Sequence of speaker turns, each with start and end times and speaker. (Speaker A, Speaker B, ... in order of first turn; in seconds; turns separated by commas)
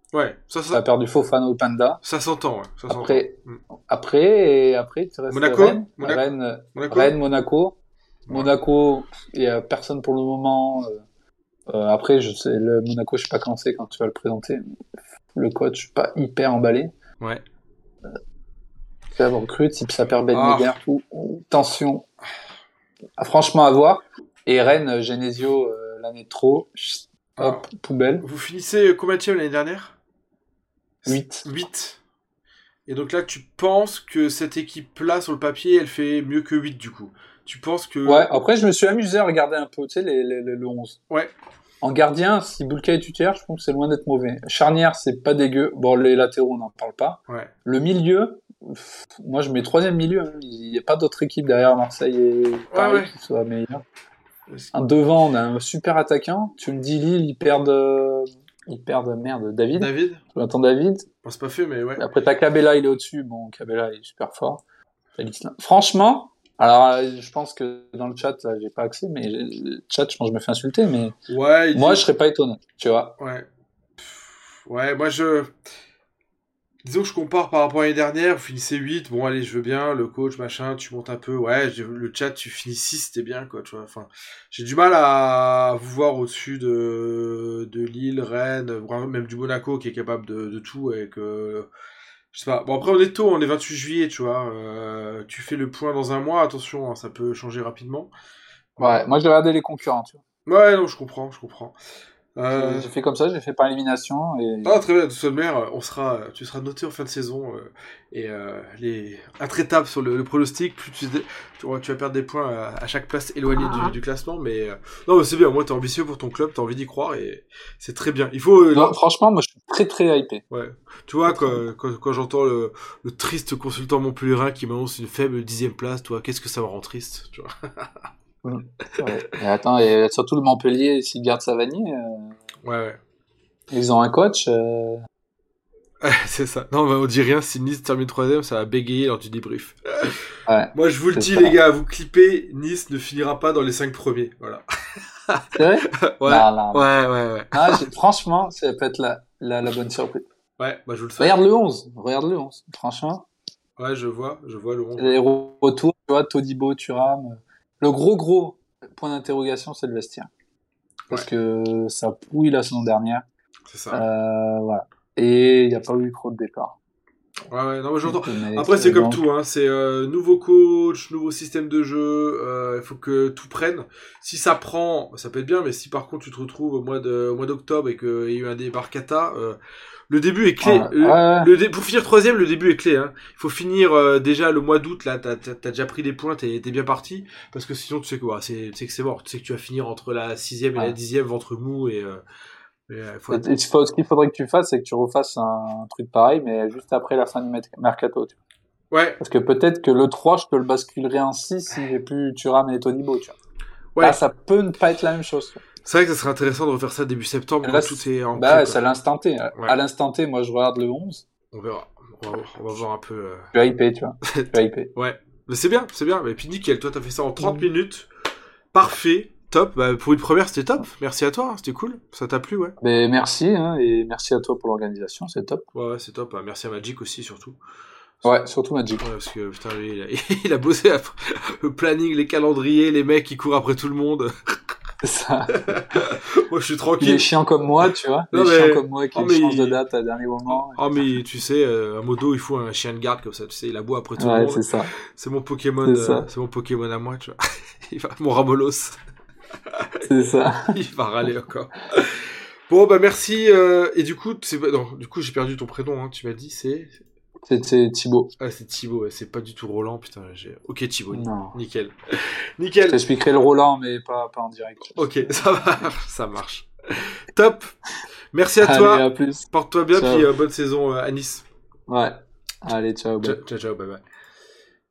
Speaker A: 0.1-0.8, Speaker B: 0.7-2.0, Speaker A: 2.0-3.6, Speaker B: 2.9-7.8, Speaker A: 5.3-6.2, Speaker A: 6.8-7.1, Speaker B: 8.3-11.0, Speaker B: 11.7-14.6, Speaker B: 15.3-16.9, Speaker B: 19.1-22.1, Speaker A: 20.3-20.8, Speaker B: 23.2-28.3, Speaker A: 27.4-27.6, Speaker A: 28.2-29.9, Speaker A: 31.0-32.0, Speaker B: 31.1-31.5, Speaker A: 32.9-38.3, Speaker B: 38.1-41.0, Speaker B: 41.8-53.8, Speaker A: 52.7-53.1, Speaker B: 54.7-61.1, Speaker A: 59.8-60.2, Speaker A: 61.2-62.1, Speaker B: 62.0-64.6, Speaker B: 65.2-71.2, Speaker A: 71.3-72.0, Speaker B: 71.7-73.1, Speaker A: 73.2-75.5, Speaker A: 76.8-91.7, Speaker A: 92.3-98.1, Speaker A: 98.8-99.1, Speaker B: 98.8-100.2, Speaker A: 100.5-101.8, Speaker A: 102.3-102.9, Speaker B: 102.5-104.8, Speaker A: 104.6-119.0, Speaker B: 118.7-120.4, Speaker A: 120.5-128.1, Speaker B: 121.3-121.6, Speaker B: 128.4-132.3, Speaker A: 132.6-133.0, Speaker B: 133.7-135.0, Speaker A: 136.0-147.9, Speaker B: 140.5-141.6, Speaker B: 145.5-146.9, Speaker B: 147.5-150.2, Speaker A: 150.6-151.4, Speaker B: 151.2-153.3, Speaker A: 153.8-155.2, Speaker B: 155.0-160.3, Speaker B: 161.1-163.2, Speaker A: 163.7-164.0, Speaker B: 163.9-166.8, Speaker A: 167.5-179.6, Speaker B: 168.0-169.2, Speaker A: 180.1-192.2, Speaker B: 180.6-181.5, Speaker A: 192.9-193.5, Speaker B: 193.3-198.4, Speaker A: 198.9-199.2, Speaker B: 199.2-203.4, Speaker A: 203.9-204.2, Speaker B: 204.0-205.6, Speaker A: 205.8-208.8, Speaker B: 207.6-211.2, Speaker A: 211.5-213.5, Speaker B: 213.5-214.9, Speaker A: 214.2-218.1, Speaker A: 218.7-222.8, Speaker B: 222.8-225.6, Speaker A: 225.7-227.6, Speaker B: 228.2-229.1, Speaker A: 229.0-234.3, Speaker B: 235.0-235.6, Speaker A: 235.5-237.3, Speaker B: 237.0-241.1, Speaker A: 238.3-239.8, Speaker A: 240.5-249.0, Speaker B: 244.2-244.9, Speaker B: 245.8-246.3, Speaker A: 249.7-257.0, Speaker B: 250.0-250.8, Speaker B: 257.4-258.3, Speaker A: 258.4-263.0, Speaker B: 261.1-261.6, Speaker B: 262.9-265.1, Speaker A: 265.0-267.7, Speaker A: 268.3-271.4, Speaker B: 268.6-270.3, Speaker B: 271.9-273.4, Speaker A: 273.2-274.0